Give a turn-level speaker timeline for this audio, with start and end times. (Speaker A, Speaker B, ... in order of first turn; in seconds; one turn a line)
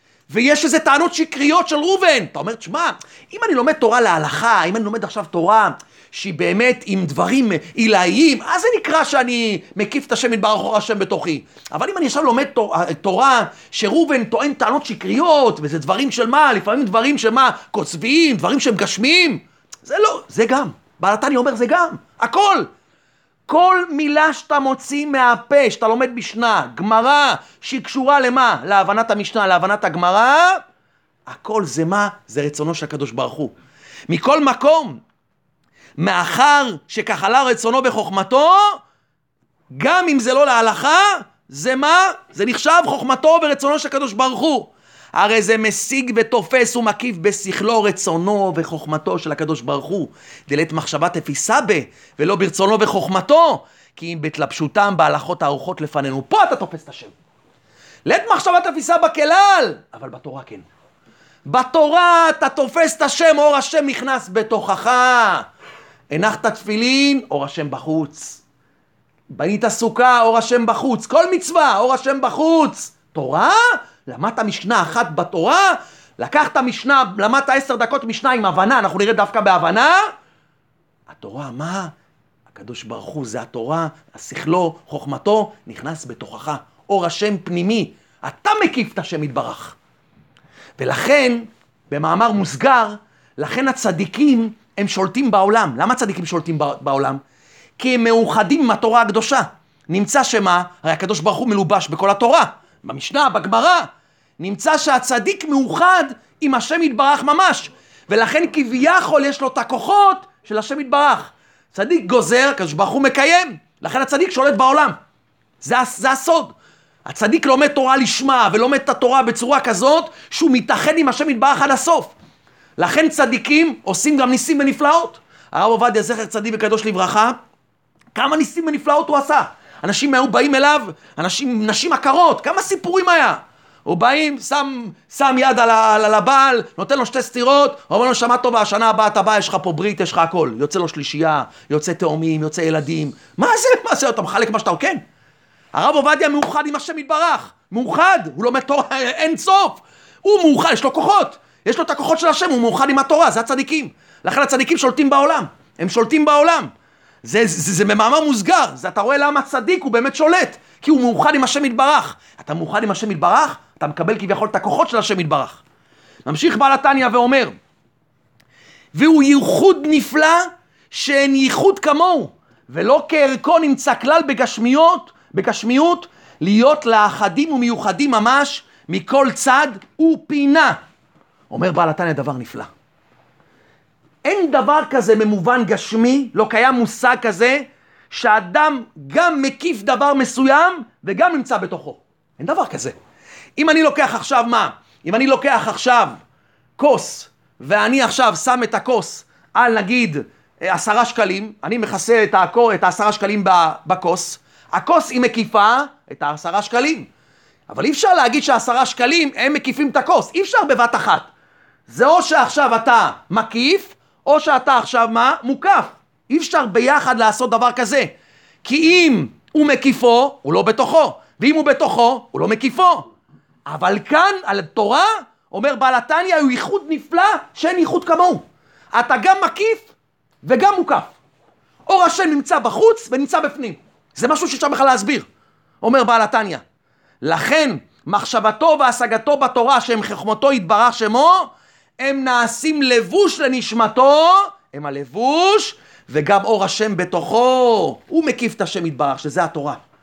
Speaker A: 0.3-22.7
Speaker A: 23.5-30.6
Speaker A: 31.3-33.5
Speaker A: 34.1-35.0
Speaker A: 36.0-38.8
Speaker A: 39.7-57.1
Speaker A: 58.0-60.6
Speaker A: 61.5-65.4
Speaker A: 66.1-68.4
Speaker A: 69.3-80.0
Speaker A: 81.1-81.9
Speaker A: 82.5-89.8
Speaker A: 90.8-97.2
Speaker A: 97.8-103.9
Speaker A: 104.4-115.0
Speaker A: 115.6-116.5
Speaker A: 117.0-122.1
Speaker A: 122.8-127.4
Speaker A: 128.1-145.0
Speaker A: 145.7-156.7
Speaker A: 157.2-165.6
Speaker A: 166.2-167.5
Speaker A: 168.9-180.8
Speaker A: 181.5-182.7
Speaker A: 184.2-192.9
Speaker A: 193.6-196.2
Speaker A: 196.8-207.1
Speaker A: 207.7-211.3
Speaker A: 211.9-223.1
Speaker A: 223.7-229.9
Speaker A: 230.4-231.1
Speaker A: 231.9-235.3
Speaker A: 235.8-236.6
Speaker A: 237.2-249.8